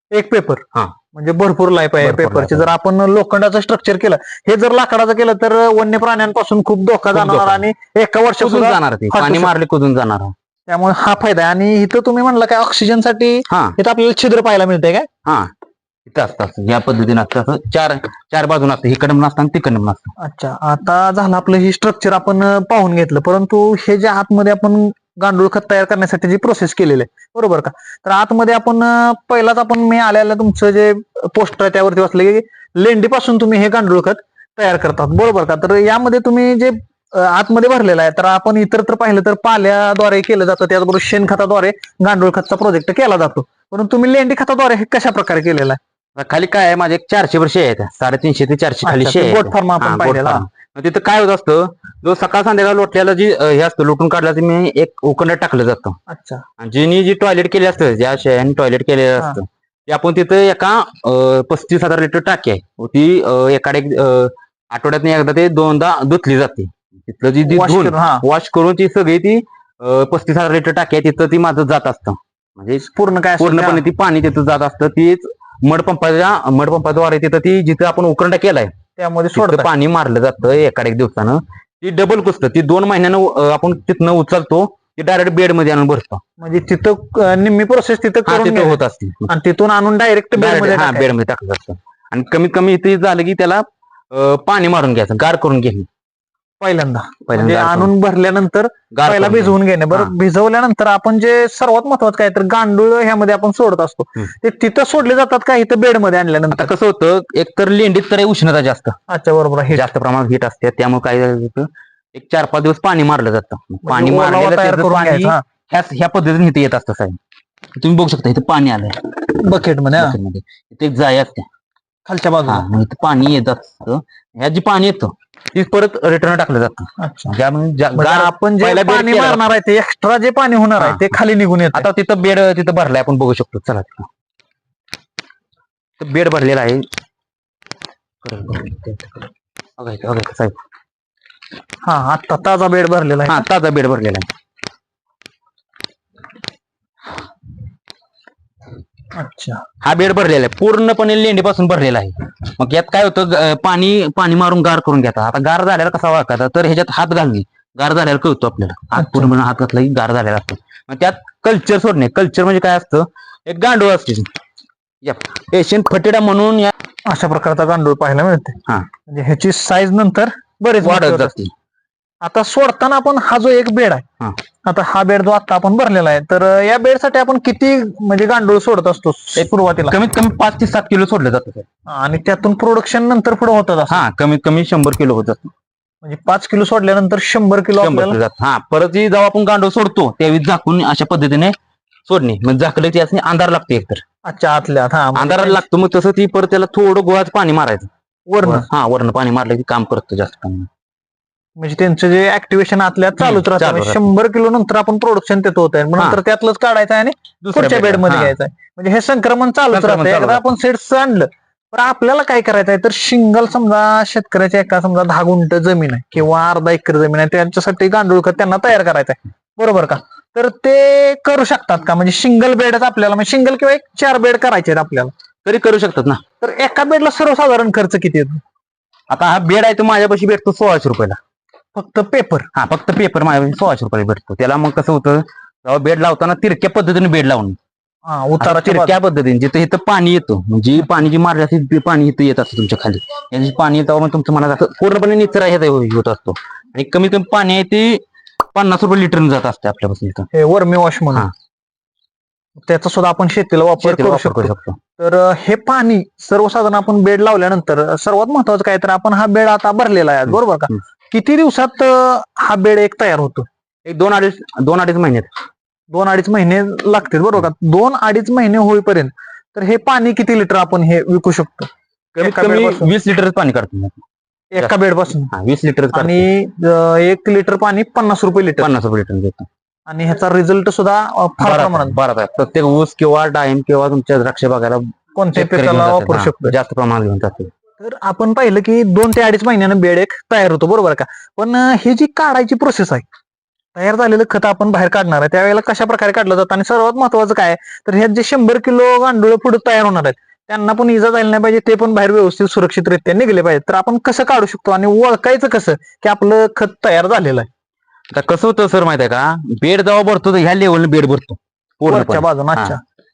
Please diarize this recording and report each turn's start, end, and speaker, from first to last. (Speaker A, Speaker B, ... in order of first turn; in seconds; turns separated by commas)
Speaker A: 0.1-9.5, Speaker B: 2.0-2.7, Speaker B: 7.1-7.6, Speaker B: 8.4-10.3, Speaker A: 10.7-15.1, Speaker B: 13.5-13.8, Speaker B: 15.2-15.5, Speaker B: 16.1-20.1, Speaker A: 20.2-45.8, Speaker B: 46.1-56.0, Speaker A: 48.8-50.4, Speaker A: 56.1-56.4, Speaker B: 56.6-72.8, Speaker A: 67.5-68.2, Speaker A: 72.8-73.8, Speaker B: 73.4-78.7, Speaker A: 79.0-79.7, Speaker B: 79.3-86.2, Speaker A: 86.4-91.1, Speaker B: 88.2-89.3, Speaker B: 90.3-95.9, Speaker A: 96.6-106.7, Speaker B: 97.3-97.9, Speaker B: 98.9-100.1, Speaker B: 106.5-109.0, Speaker A: 109.1-109.8, Speaker B: 109.7-117.2, Speaker A: 113.8-115.4, Speaker B: 117.8-119.1, Speaker A: 119.4-120.2, Speaker B: 120.0-121.5, Speaker A: 122.0-122.7, Speaker B: 122.5-129.4, Speaker A: 127.0-127.3, Speaker A: 127.9-131.8, Speaker B: 130.8-131.1, Speaker B: 131.7-134.1, Speaker B: 136.0-136.8, Speaker B: 138.2-140.6, Speaker A: 141.8-143.4, Speaker B: 143.3-144.3, Speaker A: 149.1-149.6, Speaker B: 149.8-164.3, Speaker A: 158.9-159.3, Speaker B: 165.0-166.7, Speaker A: 167.1-171.3, Speaker B: 170.8-171.5, Speaker A: 172.2-174.0, Speaker A: 174.7-179.9, Speaker B: 179.4-181.7, Speaker A: 181.9-184.0, Speaker B: 183.9-185.5, Speaker A: 186.0-188.2, Speaker B: 187.8-191.5, Speaker B: 192.1-194.0, Speaker A: 194.2-195.6, Speaker B: 195.1-197.9, Speaker A: 198.3-198.7, Speaker B: 198.4-200.7, Speaker A: 201.6-225.1, Speaker B: 203.2-204.0, Speaker B: 207.4-208.3, Speaker B: 209.7-210.5, Speaker B: 225.4-226.2, Speaker A: 226.4-228.4, Speaker B: 229.1-231.2, Speaker A: 231.7-232.5, Speaker B: 232.5-237.6, Speaker A: 238.1-239.0, Speaker B: 238.4-248.0, Speaker B: 248.5-250.3, Speaker A: 250.3-251.3, Speaker A: 252.6-263.5, Speaker B: 253.8-254.8, Speaker B: 263.8-265.3, Speaker A: 265.9-271.7, Speaker B: 272.1-274.0, Speaker A: 272.2-272.9, Speaker A: 274.5-275.3, Speaker B: 275.3-276.3, Speaker A: 275.9-278.7, Speaker B: 278.6-279.5, Speaker A: 279.9-281.9, Speaker B: 281.4-287.5, Speaker A: 285.1-286.5, Speaker A: 287.8-293.1, Speaker A: 293.7-307.5, Speaker B: 308.1-312.8, Speaker A: 311.9-312.8